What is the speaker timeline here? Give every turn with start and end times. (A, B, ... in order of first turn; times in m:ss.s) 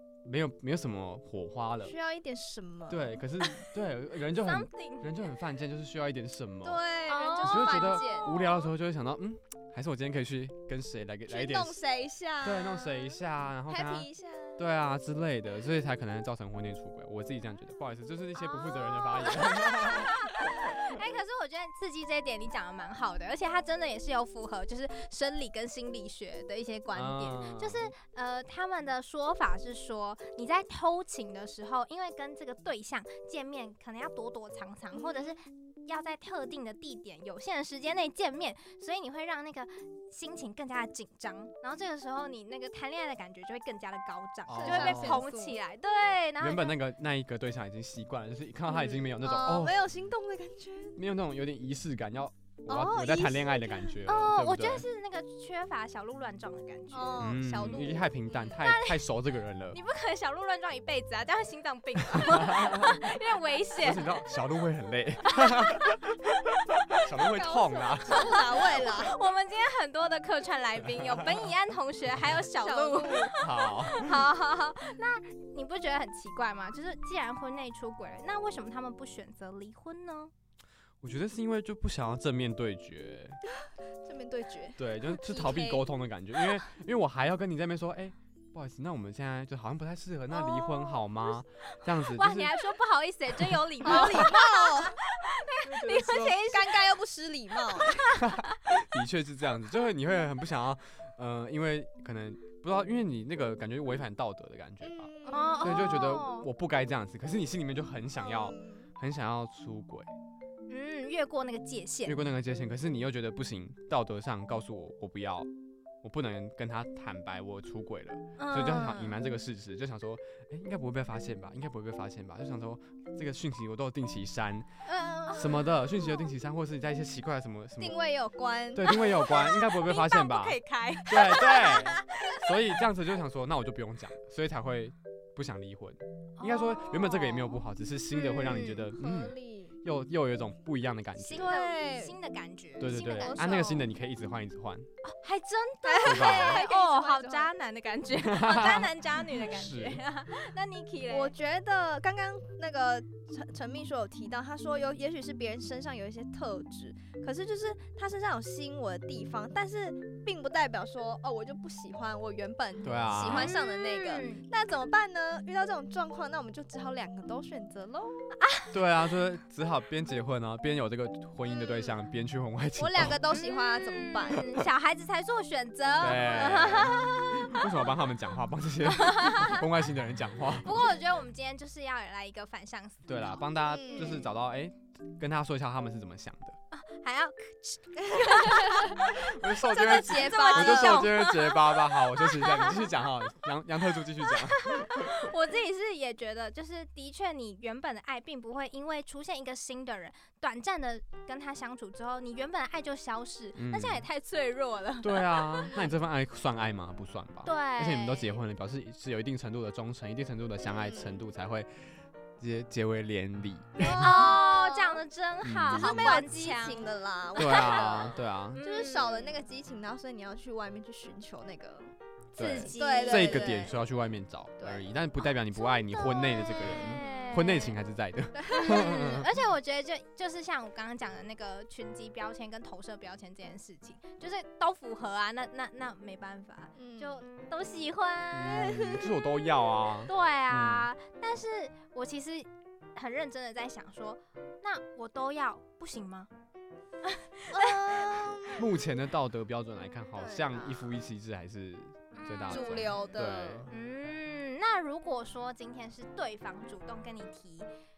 0:00.2-0:01.9 A
0:01.8-0:03.6 B
0:02.9-0:06.8 A
0:04.4-0:05.1 C
0:06.6-0:08.5 B
0:07.1-0:08.5 C
0:07.4-0:11.8 A
0:11.3-0:14.6 B
0:12.4-0:20.7 A
0:18.4-0:46.8 C
0:26.9-0:27.9 A
0:34.9-0:35.4 B
0:44.4-0:45.2 A
0:44.6-0:45.6 B
0:46.4-0:49.8 A
0:48.7-0:51.0 B
0:51.0-0:54.8 A
0:52.7-0:53.8 B
0:54.0-0:57.9 C
0:56.9-0:58.6 B
0:57.2-0:59.8 A
0:58.6-0:59.0 C
0:59.7-1:04.2 C
1:02.1-1:03.0 A
1:03.8-1:08.4 A
1:05.4-1:05.7 C
1:07.1-1:09.2 B
1:08.0-1:20.3 C
1:11.0-1:11.4 A
1:12.6-1:13.3 B
1:13.4-1:14.2 A
1:21.0-1:23.4 A
1:23.5-1:26.5 B
1:24.8-1:32.6 A
1:30.3-1:31.0 C
1:31.7-1:36.9 C
1:33.4-1:34.3 A
1:33.8-1:35.0 B
1:35.6-1:36.4 A
1:36.5-1:38.1 B
1:37.7-1:38.8 C
1:38.2-1:50.1 A
1:44.8-1:45.9 B
1:45.3-1:46.5 C
1:48.2-1:48.9 B
1:50.7-1:52.2 C
1:52.0-1:55.5 A
1:56.0-2:04.7 A
1:58.4-1:59.1 C
2:04.8-2:05.7 C
2:05.3-2:08.0 A
2:07.8-2:09.0 B
2:08.7-2:21.5 A
2:08.9-2:12.4 C
2:16.4-2:17.6 C
2:18.1-2:19.3 C
2:19.0-2:19.8 B
2:21.3-2:22.2 B
2:21.3-2:23.8 C
2:22.8-2:24.9 A
2:23.2-2:23.8 B
2:25.0-2:31.3 C
2:25.8-2:27.5 B
2:26.0-2:26.6 A
2:28.2-2:30.0 A
2:31.1-2:48.2 B
2:42.8-2:43.5 A
2:43.2-2:44.4 C
2:48.3-2:48.7 C
2:48.7-2:53.2 A
2:51.6-2:51.9 B
2:52.8-2:54.6 B
2:53.3-2:57.8 C
2:56.0-3:00.8 A
2:58.9-2:59.6 C
3:00.6-3:03.4 C
3:03.0-3:06.6 A
3:03.6-3:04.3 B
3:06.7-3:12.9 C
3:08.2-3:08.9 B
3:09.0-3:15.3 A
3:09.7-3:11.2 B
3:14.3-3:25.7 C
3:23.6-3:24.0 A
3:25.0-3:31.7 A
3:25.6-3:25.9 B
3:27.4-3:28.4 C
3:30.6-3:31.2 B
3:32.4-3:34.3 A
3:33.8-3:39.4 C
3:33.9-3:35.0 B
3:35.4-3:36.3 A
3:35.7-3:41.9 B
3:37.3-3:38.6 A
3:42.3-3:49.3 A
3:42.4-3:43.6 C
3:42.7-3:43.7 B
3:44.6-3:44.9 B
3:45.7-3:47.2 B
3:46.0-3:47.8 C
3:48.3-3:48.8 B
3:48.5-3:59.1 C
3:56.8-3:57.3 B
3:58.3-4:00.9 A
4:00.1-4:06.3 C
4:07.0-4:08.5 C
4:07.5-4:08.7 B
4:08.5-4:13.7 A
4:10.1-4:10.9 B
4:12.1-4:17.7 C
4:12.5-4:13.7 B